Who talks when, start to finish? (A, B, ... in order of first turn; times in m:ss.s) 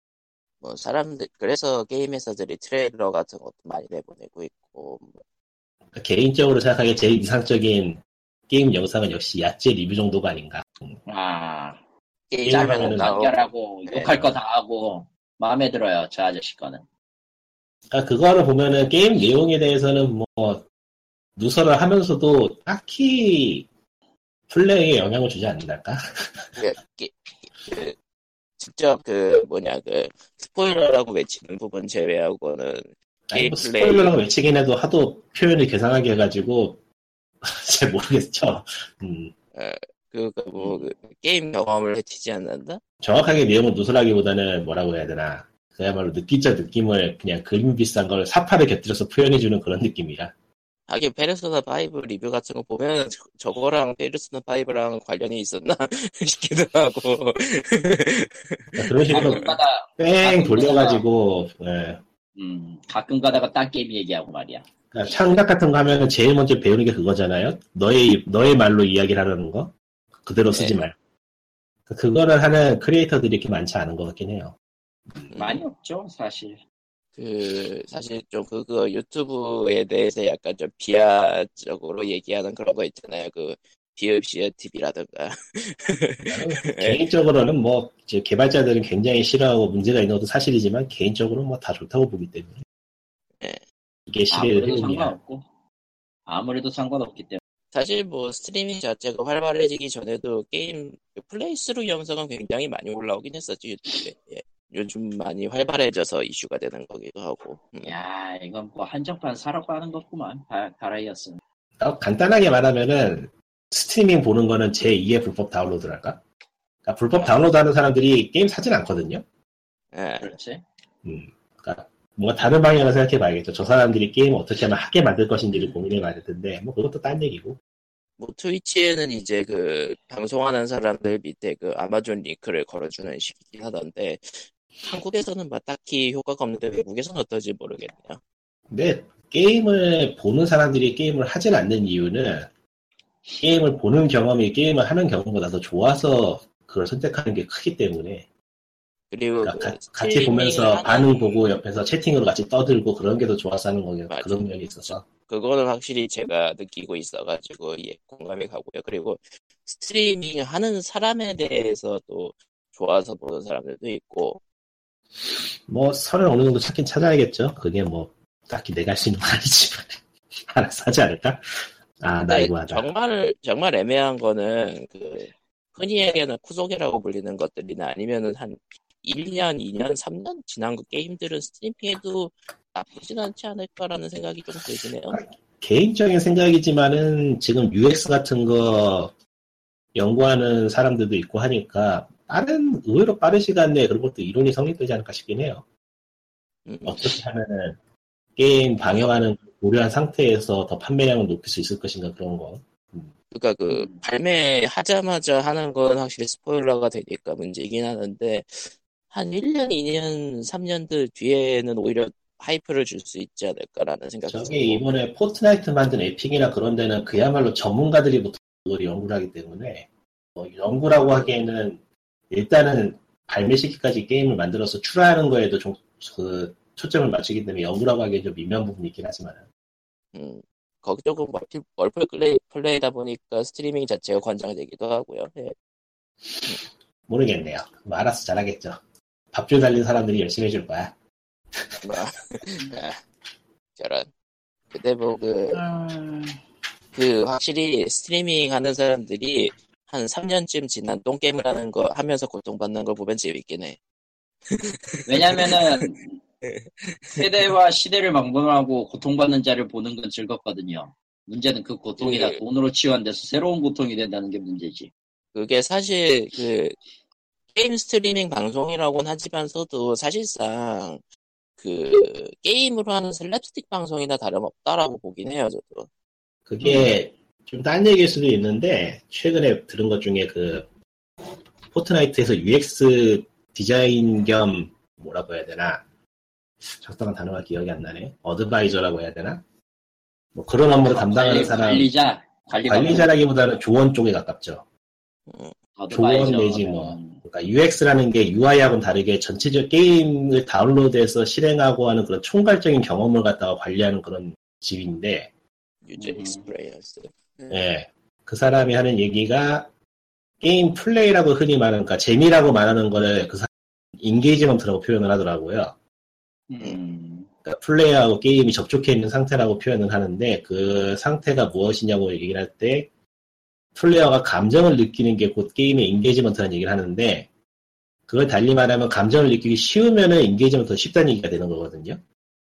0:00.6-0:05.2 A
0:06.0-0:11.0 B
0:11.1-0:11.8 C
0:12.3-0:13.4 A
0:12.4-0:13.1 B
0:12.5-0:16.8 C
0:13.9-0:14.3 A
0:17.9-0:20.7 B
0:21.4-0:23.7 B
0:24.5-0:26.5 B
0:26.6-0:28.0 A
0:28.6-0:34.2 A
0:33.3-0:36.8 B
0:37.4-0:39.3 B
0:39.6-0:42.8 A
0:43.0-0:50.3 B
0:50.9-0:59.4 A
0:58.8-1:02.0 B
0:59.1-1:01.0 C
1:02.4-1:04.6 C
1:04.9-1:11.0 B
1:10.5-1:10.8 A
1:11.9-1:14.6 B
1:15.3-1:15.6 A
1:15.4-1:16.6 C
1:17.2-1:27.0 A
1:26.3-1:32.6 B
1:34.1-1:35.2 B
1:34.3-1:35.5 C
1:36.3-1:37.4 C
1:37.7-1:47.9 A
1:47.8-1:51.4 C
1:51.8-1:56.2 B
1:56.8-1:59.2 B
1:59.9-2:00.3 A
2:00.2-2:00.6 C
2:01.0-2:07.6 B
2:08.2-2:18.2 A
2:18.7-2:22.5 B
2:23.4-2:28.3 B
2:29.1-2:31.4 A
2:29.4-2:35.1 B
2:34.1-2:44.4 A
2:45.7-2:51.4 B
2:52.0-2:52.9 B
2:52.3-3:05.2 A
3:05.1-3:09.1 B
3:10.0-3:15.6 B
3:16.7-3:17.2 A
3:16.9-3:17.8 B
3:18.4-3:23.1 B
3:23.3-3:34.8 A
3:23.7-3:24.0 C
3:34.3-3:49.5 B
3:50.1-3:55.5 A
3:57.1-3:58.8 B
3:59.3-4:00.9 B
4:01.8-4:03.0 A
4:03.8-4:04.1 A
4:04.7-4:05.6 A
4:05.5-4:06.4 C
4:07.0-4:13.8 A
4:14.5-4:15.9 A
4:15.1-4:16.2 C
4:16.4-4:17.3 A
4:17.2-4:24.9 C
4:22.0-4:22.4 A
4:25.3-4:26.8 A
4:27.5-4:31.0 A
4:31.6-4:35.9 A
4:36.5-4:40.7 B
4:36.6-4:36.9 C
4:41.7-4:45.8 B
4:46.7-4:49.4 B
4:50.4-4:51.9 B
4:50.9-4:53.1 C
4:52.7-4:54.6 B
4:55.3-4:55.6 A
4:55.8-4:57.2 C
4:55.9-5:05.3 B
5:05.8-5:07.6 A
5:06.0-5:06.5 C
5:07.5-5:09.7 B
5:10.4-5:15.8 B
5:16.5-5:17.3 C
5:17.4-5:22.9 B
5:23.8-5:27.3 B
5:28.1-5:32.0 B